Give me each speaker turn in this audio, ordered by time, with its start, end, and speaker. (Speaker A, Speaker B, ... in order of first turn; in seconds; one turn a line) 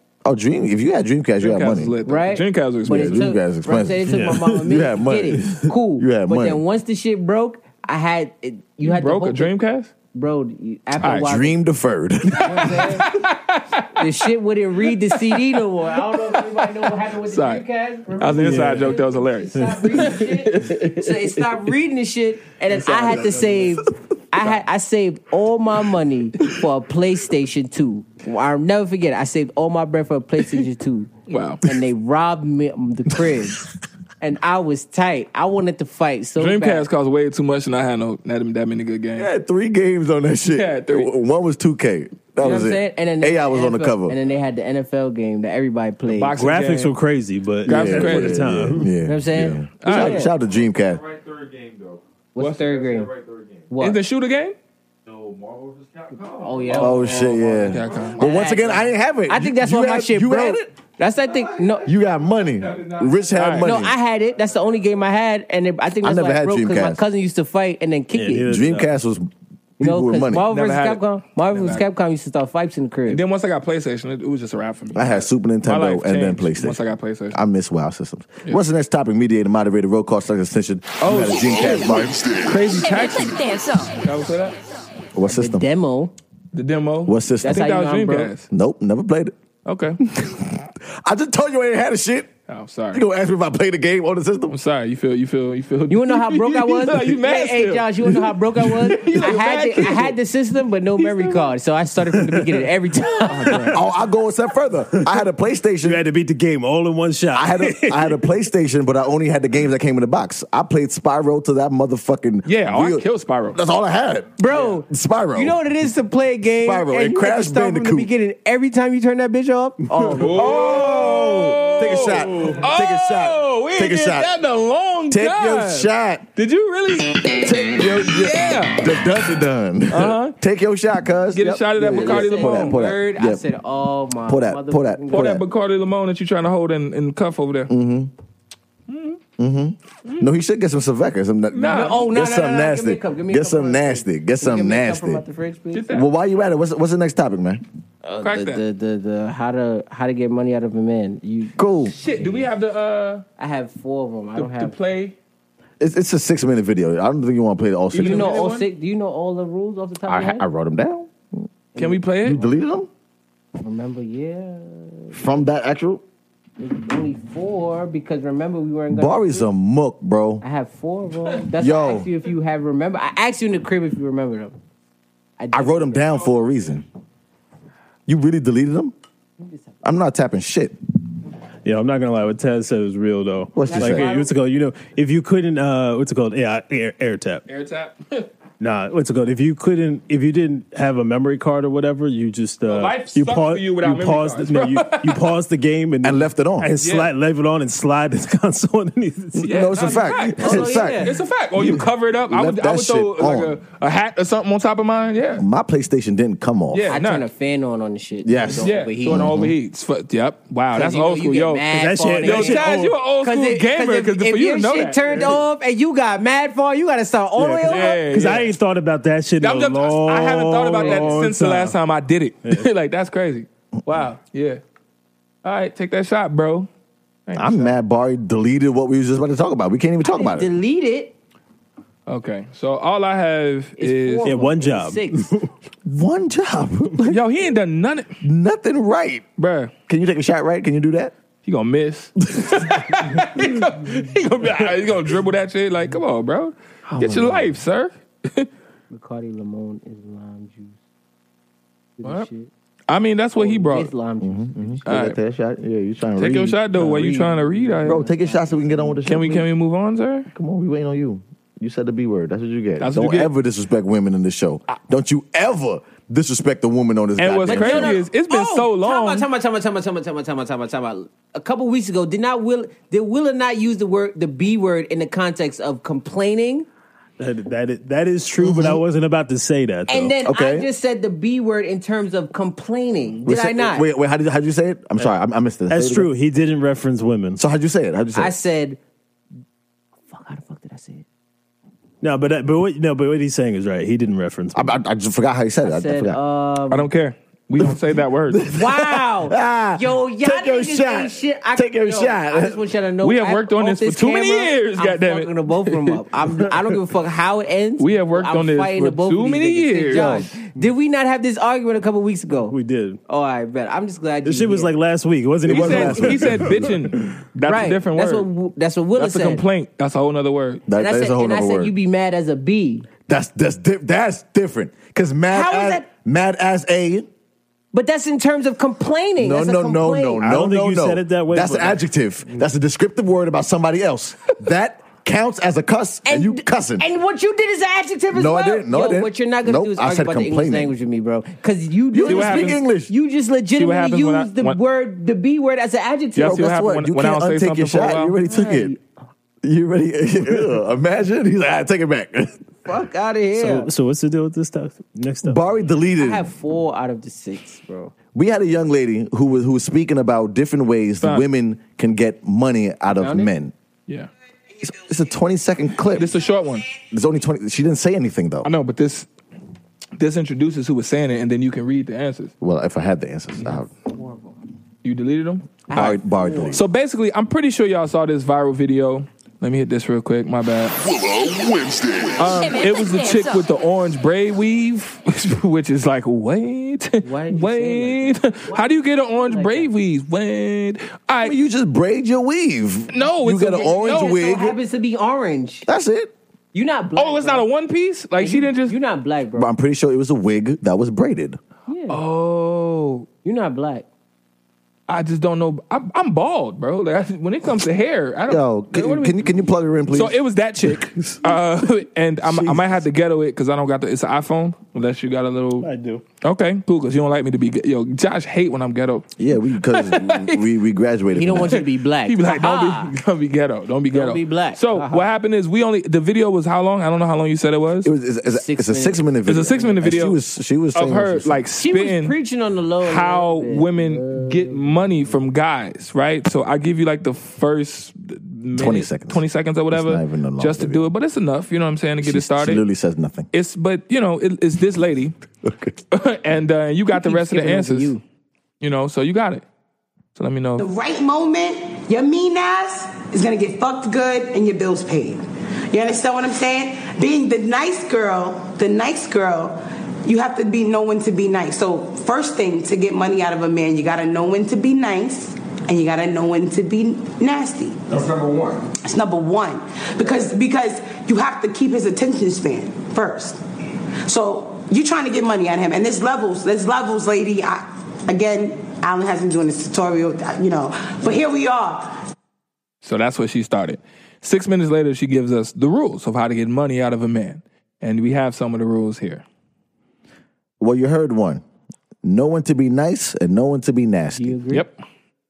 Speaker A: 0.2-1.9
Speaker B: 1.4-3.3
Speaker C: 2.0-9.5
Speaker A: 2.9-6.6
Speaker D: 4.1-4.7
Speaker B: 8.8-9.9
Speaker C: 10.1-11.6
Speaker B: 11.0-11.3
Speaker A: 11.2-12.8
Speaker B: 12.3-14.2
Speaker C: 12.4-13.1
Speaker C: 13.9-31.1
Speaker B: 14.9-17.6
Speaker B: 18.2-21.4
Speaker D: 18.4-19.0
Speaker D: 19.6-20.0
Speaker A: 22.9-23.2
Speaker B: 31.3-31.6
Speaker C: 31.6-33.7
Speaker C: 34.2-36.9
Speaker B: 36.4-39.3
Speaker A: 39.2-44.2
Speaker B: 40.5-41.1
Speaker C: 42.4-46.4
Speaker B: 46.1-47.0
Speaker D: 46.4-48.9
Speaker B: 47.6-48.6
Speaker A: 47.6-51.0
Speaker C: 49.0-50.3
Speaker B: 49.8-50.2
Speaker E: 50.0-53.7
Speaker C: 52.3-53.1
Speaker C: 53.7-54.0
Speaker B: 53.8-54.6
Speaker E: 55.0-58.2
Speaker C: 56.4-61.9
Speaker A: 56.7-60.7
Speaker B: 57.6-58.6
Speaker E: 61.2-65.1
Speaker A: 61.9-63.9
Speaker B: 63.3-63.7
Speaker C: 63.6-68.6
Speaker A: 66.0-67.0
Speaker D: 68.1-68.9
Speaker A: 68.4-70.5
Speaker C: 69.8-73.2
Speaker B: 70.5-71.9
Speaker B: 73.1-77.4
Speaker A: 74.9-82.4
Speaker B: 81.0-83.4
Speaker F: 82.6-84.0
Speaker B: 84.0-84.6
Speaker A: 85.2-85.7
Speaker C: 85.3-86.1
Speaker B: 86.5-88.5
Speaker A: 87.1-87.7
Speaker C: 87.4-88.3
Speaker A: 88.5-89.3
Speaker B: 89.7-90.0
Speaker A: 90.1-92.3
Speaker B: 92.5-93.0
Speaker A: 92.9-94.6
Speaker B: 94.5-100.2
Speaker C: 95.9-103.8
Speaker B: 101.0-101.5
Speaker D: 102.3-102.6
Speaker D: 103.5-103.8
Speaker A: 103.7-106.0
Speaker D: 105.8-108.2
Speaker A: 107.3-115.6
Speaker B: 112.5-113.6
Speaker C: 114.4-120.5
Speaker A: 116.6-118.1
Speaker B: 120.2-128.9
Speaker A: 120.2-124.3
Speaker A: 125.1-126.3
Speaker A: 127.3-133.4
Speaker B: 129.9-130.4
Speaker B: 131.3-132.8
Speaker C: 131.9-135.4
Speaker A: 134.3-135.4
Speaker B: 135.1-137.7
Speaker A: 137.7-138.1
Speaker B: 138.9-139.2
Speaker A: 139.4-145.2
Speaker B: 141.5-142.1
Speaker C: 141.7-145.9
Speaker B: 145.7-146.1
Speaker A: 145.9-147.6
Speaker C: 148.0-152.4
Speaker B: 148.2-148.6
Speaker A: 151.6-151.9
Speaker B: 151.9-153.2
Speaker C: 153.4-154.8
Speaker B: 154.4-155.2
Speaker A: 155.8-158.4
Speaker B: 157.9-158.7
Speaker C: 158.0-160.4
Speaker A: 160.1-161.4
Speaker C: 161.8-162.1
Speaker B: 161.8-162.4
Speaker A: 162.2-162.9
Speaker C: 163.6-165.4
Speaker A: 165.1-166.0
Speaker C: 166.6-169.5
Speaker A: 168.9-170.4
Speaker C: 170.4-174.6
Speaker A: 171.6-172.1
Speaker C: 175.4-176.2
Speaker A: 175.5-176.8
Speaker A: 178.1-178.9
Speaker C: 179.4-179.8
Speaker A: 179.8-180.8
Speaker D: 181.7-187.4
Speaker A: 183.5-184.1
Speaker C: 183.6-184.3
Speaker B: 187.5-188.3
Speaker D: 188.6-200.1
Speaker B: 192.7-195.3
Speaker A: 196.0-196.7
Speaker B: 196.8-197.1
Speaker A: 199.4-203.6
Speaker B: 199.4-205.4
Speaker C: 200.4-201.2
Speaker A: 205.4-207.0
Speaker B: 206.7-207.2
Speaker C: 206.9-209.3
Speaker A: 208.2-209.5
Speaker B: 208.6-211.7
Speaker C: 210.7-218.0
Speaker D: 211.7-212.9
Speaker B: 212.2-215.4
Speaker D: 217.4-221.8
Speaker B: 217.7-218.5
Speaker B: 219.4-224.6
Speaker C: 220.8-221.2
Speaker B: 225.4-226.7
Speaker B: 227.3-227.7
Speaker A: 227.3-230.5
Speaker C: 230.0-231.1
Speaker B: 232.1-234.3
Speaker C: 233.8-235.3
Speaker D: 234.2-235.5
Speaker A: 235.8-237.2
Speaker B: 237.1-238.2
Speaker A: 238.2-239.2
Speaker B: 239.4-239.7
Speaker A: 239.9-241.1
Speaker B: 241.4-248.5
Speaker A: 242.4-242.6
Speaker A: 246.9-247.5
Speaker C: 248.9-250.8
Speaker C: 252.0-252.5
Speaker B: 252.9-253.9
Speaker C: 253.4-254.9
Speaker A: 254.2-257.2
Speaker B: 254.9-255.2
Speaker B: 256.2-258.0
Speaker C: 256.8-259.4
Speaker A: 257.9-259.5
Speaker B: 259.1-260.3
Speaker A: 260.3-268.0
Speaker B: 262.8-263.3
Speaker B: 267.2-269.3
Speaker C: 267.5-276.7
Speaker D: 277.2-280.1
Speaker A: 278.4-278.8
Speaker C: 279.9-283.9
Speaker A: 280.2-280.7
Speaker A: 283.3-286.1
Speaker D: 285.7-287.4
Speaker A: 287.4-288.3
Speaker C: 288.1-288.8
Speaker C: 290.1-291.1
Speaker D: 292.0-294.8
Speaker A: 294.6-296.2
Speaker C: 295.6-296.9
Speaker B: 296.7-298.6
Speaker A: 298.3-302.7
Speaker C: 298.5-314.7
Speaker B: 303.0-306.0
Speaker B: 307.8-310.3
Speaker A: 309.9-310.2
Speaker D: 312.5-313.0
Speaker D: 314.2-317.1
Speaker A: 315.5-316.6
Speaker B: 315.5-318.3
Speaker C: 317.4-319.4
Speaker B: 319.0-320.6
Speaker A: 320.7-321.7
Speaker C: 320.8-322.9
Speaker A: 323.1-327.1
Speaker C: 325.3-325.9
Speaker C: 327.7-330.2
Speaker A: 329.2-336.9
Speaker D: 330.2-331.8
Speaker C: 336.1-346.5
Speaker A: 338.1-340.7
Speaker A: 341.9-342.9
Speaker B: 342.1-342.6
Speaker B: 343.6-344.6
Speaker B: 346.2-348.2
Speaker A: 346.2-348.7
Speaker C: 348.2-348.8
Speaker A: 349.4-352.4
Speaker C: 352.6-353.7
Speaker D: 353.4-355.4
Speaker A: 355.2-356.3
Speaker C: 356.0-357.9
Speaker A: 358.1-363.5
Speaker C: 362.9-363.3
Speaker A: 364.6-366.1
Speaker B: 365.9-366.7
Speaker A: 366.9-368.5
Speaker B: 368.4-369.1
Speaker B: 370.0-372.3
Speaker A: 372.4-373.7
Speaker C: 373.9-374.4
Speaker B: 374.8-376.0
Speaker C: 375.7-376.6
Speaker A: 375.7-376.6
Speaker B: 376.5-381.5
Speaker B: 382.1-391.4
Speaker F: 382.4-383.5
Speaker C: 387.0-388.7
Speaker C: 389.2-389.7
Speaker A: 391.2-394.6
Speaker B: 392.9-394.2
Speaker C: 393.6-395.7
Speaker A: 395.7-396.1
Speaker C: 396.5-397.5
Speaker B: 397.0-398.8
Speaker C: 398.2-399.5
Speaker A: 399.4-401.4
Speaker C: 401.7-402.0
Speaker B: 401.9-403.1
Speaker C: 403.2-403.9
Speaker B: 404.9-409.3
Speaker A: 408.3-411.2
Speaker B: 409.9-415.7
Speaker A: 412.2-412.8
Speaker D: 415.6-416.0
Speaker B: 416.2-419.1
Speaker A: 419.2-421.6
Speaker B: 419.6-420.4
Speaker C: 421.1-422.9
Speaker B: 421.3-427.9
Speaker C: 423.9-425.1
Speaker A: 427.8-431.4
Speaker C: 428.3-429.0
Speaker B: 429.3-430.2
Speaker B: 430.8-432.2
Speaker C: 431.6-434.9
Speaker B: 432.8-442.6
Speaker A: 438.6-440.9
Speaker A: 442.0-443.3
Speaker B: 443.3-445.1
Speaker A: 445.4-445.8
Speaker B: 445.9-447.9
Speaker C: 446.9-448.0
Speaker B: 448.6-449.4
Speaker B: 450.1-450.7
Speaker G: 450.6-467.8
Speaker G: 468.8-473.4
Speaker G: 474.0-482.0
Speaker B: 482.8-489.2
Speaker A: 490.6-491.4
Speaker A: 492.0-494.4
Speaker C: 494.2-494.7